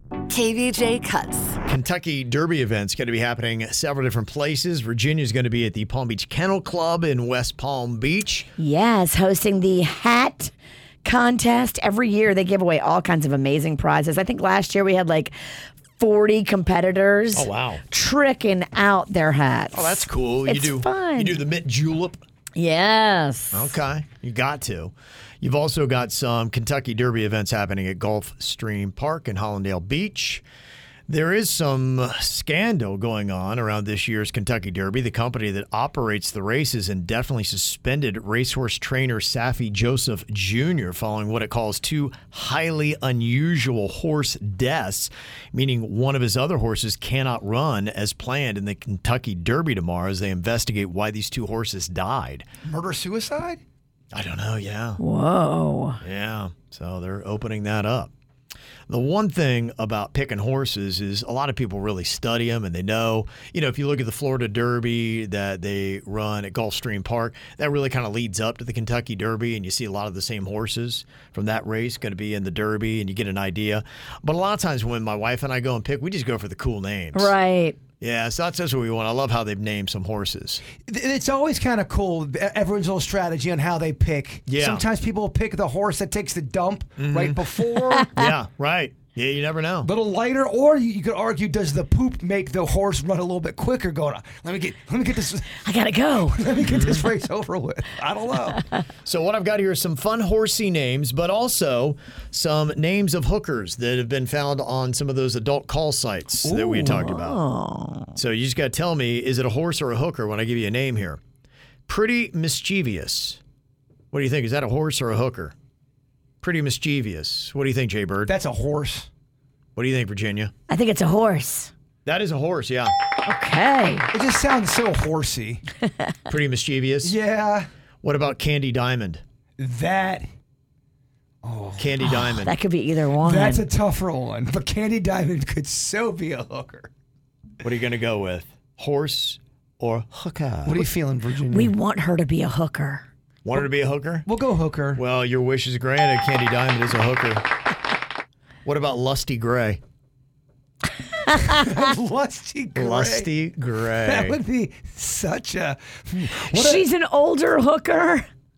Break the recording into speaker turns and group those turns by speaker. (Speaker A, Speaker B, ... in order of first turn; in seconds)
Speaker A: 0.3-1.6, 8.6-10.5, 11.0-15.4, 16.0-21.4, 22.6-23.8, 55.0-56.0, 77.1-77.8, 95.6-96.5, 106.5-108.2, 120.7-121.7, 123.2-124.1, 132.1-133.6, 141.5-143.1, 156.5-158.3
Speaker B: 1.6-8.5, 17.3-17.8, 19.7-22.2, 23.5-30.4, 31.1-52.5, 54.1-55.0, 56.0-58.1, 58.9-77.3, 78.0-80.6, 84.5-84.8, 87.0-87.4, 88.2-89.9, 96.6-97.1, 99.0-107.4, 108.2-111.2, 111.9-113.4, 114.1-115.5, 116.4-118.3, 119.8-120.5, 122.0-122.9, 126.3-127.2, 128.0-129.2, 131.8-132.6, 137.6-140.9, 143.4-144.2, 144.9-147.4, 148.7-149.8, 152.8-154.4
Speaker C: 52.6-53.6, 80.8-88.1, 89.8-95.6, 96.3-98.6, 106.4-106.8, 118.3-119.1, 124.1-125.6, 127.0-127.7, 129.6-130.3, 131.4-132.0, 133.2-136.9, 140.7-141.7, 144.2-145.0, 151.5-153.3, 154.0-156.8